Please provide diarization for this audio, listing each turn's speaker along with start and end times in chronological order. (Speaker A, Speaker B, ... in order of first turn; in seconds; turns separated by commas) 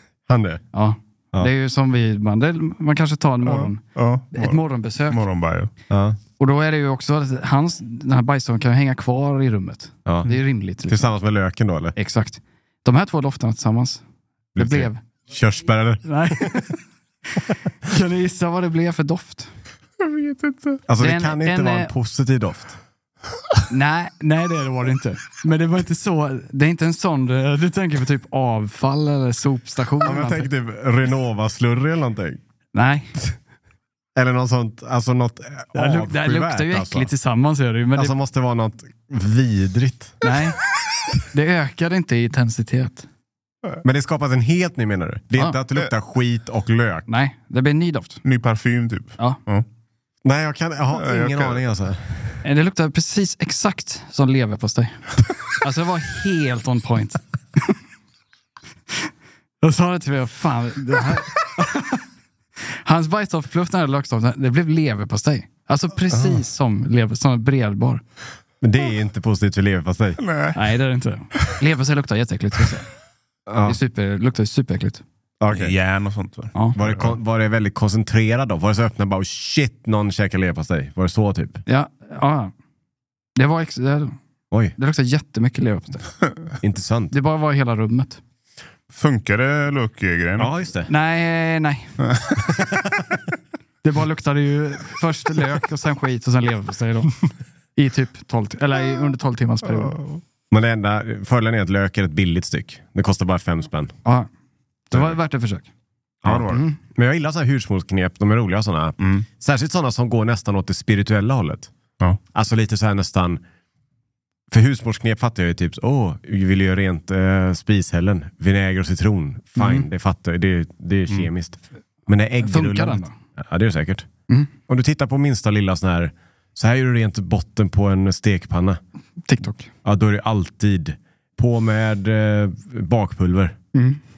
Speaker A: 0.3-0.6, Speaker B: 0.7-3.8, Speaker C: 3.5-5.7, Speaker B: 4.3-5.2, Speaker A: 5.9-6.2, Speaker B: 6.4-11.1, Speaker A: 10.1-10.3, Speaker A: 10.9-12.0, Speaker B: 12.0-14.0, Speaker A: 14.5-16.6, Speaker B: 14.6-15.0, Speaker B: 16.0-16.8, Speaker B: 17.4-19.5, Speaker C: 20.0-20.8, Speaker A: 20.9-22.8, Speaker B: 21.0-21.9, Speaker B: 23.7-30.5, Speaker A: 30.0-32.4, Speaker B: 32.7-33.1, Speaker A: 34.1-37.1, Speaker B: 35.7-38.1, Speaker A: 38.0-40.1, Speaker B: 40.2-40.6, Speaker B: 41.3-43.0, Speaker A: 43.8-47.1, Speaker B: 47.1-48.2, Speaker C: 48.2-49.6, Speaker A: 50.2-52.4, Speaker C: 50.9-51.6, Speaker B: 52.4-55.0, Speaker B: 55.6-57.8, Speaker B: 59.6-62.0, Speaker B: 62.9-68.0, Speaker A: 66.1-66.4, Speaker A: 68.6-70.2, Speaker C: 70.2-70.6, Speaker B: 70.5-72.9, Speaker A: 73.5-73.8, Speaker B: 73.6-75.0, Speaker A: 75.4-75.8, Speaker C: 75.5-77.1, Speaker A: 76.8-81.6, Speaker B: 81.7-82.5, Speaker B: 83.4-84.2, Speaker B: 84.8-86.1, Speaker A: 86.6-87.1, Speaker B: 87.1-88.2, Speaker C: 88.9-90.5, Speaker A: 90.4-90.9, Speaker B: 90.9-91.9, Speaker C: 92.0-92.4, Speaker B: 93.8-97.2, Speaker B: 97.8-100.0, Speaker A: 100.5-103.9, Speaker B: 104.9-105.7, Speaker C: 106.2-106.6, Speaker A: 106.2-111.7, Speaker B: 106.5-106.8, Speaker C: 109.0-109.2, Speaker A: 112.3-113.4, Speaker A: 114.5-124.1, Speaker B: 119.6-119.9, Speaker B: 122.4-123.1, Speaker A: 124.7-128.8, Speaker B: 129.2-129.7, Speaker A: 129.8-133.6, Speaker B: 133.7-134.0